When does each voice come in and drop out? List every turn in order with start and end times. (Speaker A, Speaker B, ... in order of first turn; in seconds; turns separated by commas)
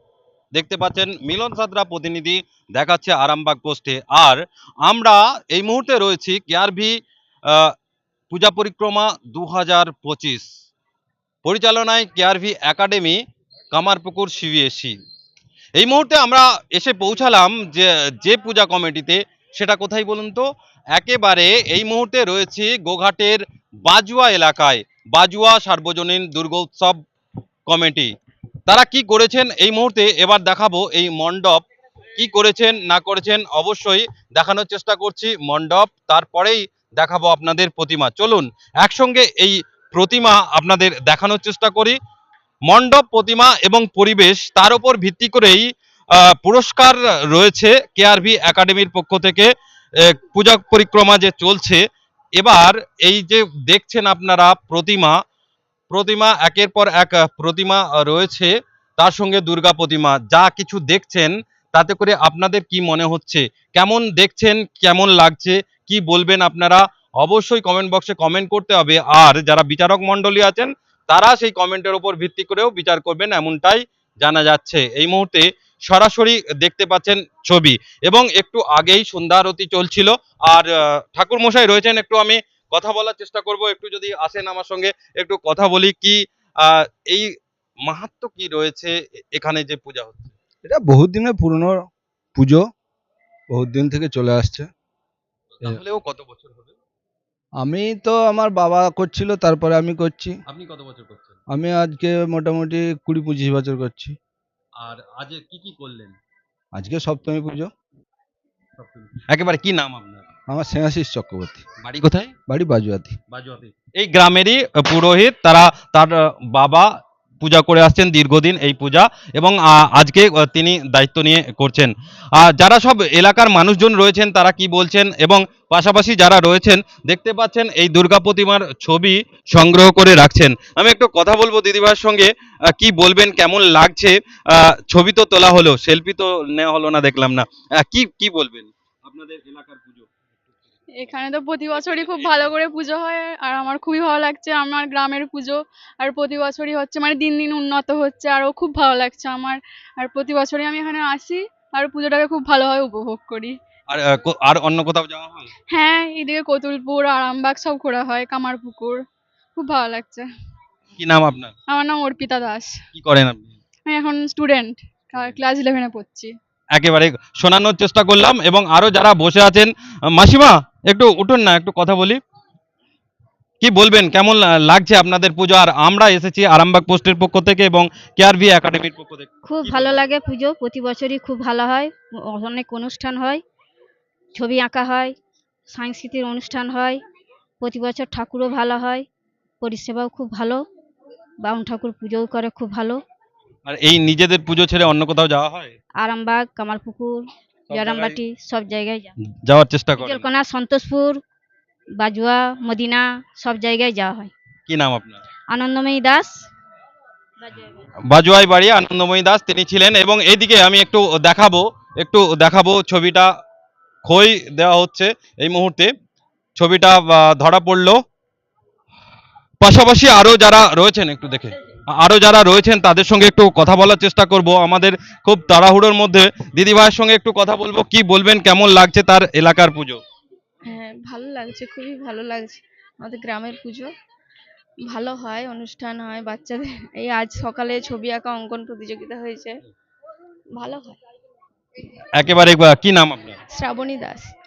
Speaker A: 0.5-7.0, Speaker A: 7.5-7.7, Speaker A: 8.3-10.5, Speaker A: 11.4-13.2, Speaker A: 13.7-14.9, Speaker A: 15.8-27.0, Speaker A: 27.7-28.1, Speaker A: 28.7-31.6, Speaker A: 32.2-42.0, Speaker A: 42.6-49.5, Speaker A: 50.0-51.8, Speaker A: 52.4-55.1, Speaker A: 55.9-87.3, Speaker A: 87.8-90.3, Speaker B: 90.7-92.6, Speaker B: 93.5-94.7, Speaker A: 95.6-96.8, Speaker B: 97.6-100.3, Speaker A: 100.5-101.4, Speaker B: 101.5-104.2, Speaker A: 104.8-106.2, Speaker B: 106.7-107.7, Speaker A: 108.8-110.3, Speaker B: 110.5-111.6, Speaker A: 111.8-112.3, Speaker B: 112.5-113.1, Speaker A: 113.3-116.9, Speaker A: 117.4-140.1, Speaker C: 140.9-153.6, Speaker A: 141.7-142.5, Speaker A: 153.9-155.5, Speaker C: 155.7-159.0, Speaker C: 159.6-160.3, Speaker A: 161.0-161.5, Speaker C: 161.7-162.8, Speaker A: 162.9-163.6, Speaker C: 163.9-166.3, Speaker A: 166.7-172.2, Speaker A: 173.6-180.1, Speaker D: 179.4-183.4, Speaker D: 184.3-185.1, Speaker D: 185.7-187.0, Speaker D: 187.6-189.1, Speaker D: 189.6-190.6, Speaker D: 191.4-193.0, Speaker A: 193.7-195.7, Speaker D: 196.0-199.1, Speaker A: 199.4-200.2, Speaker D: 200.0-201.2, Speaker D: 202.0-204.3, Speaker A: 204.7-205.2, Speaker D: 205.5-206.4, Speaker D: 207.4-207.7, Speaker A: 208.1-213.3, Speaker A: 214.0-215.9, Speaker A: 216.6-218.0, Speaker A: 219.6-230.0, Speaker E: 230.7-233.9, Speaker E: 234.9-239.6, Speaker E: 240.5-241.0, Speaker A: 242.1-243.4, Speaker E: 243.5-244.3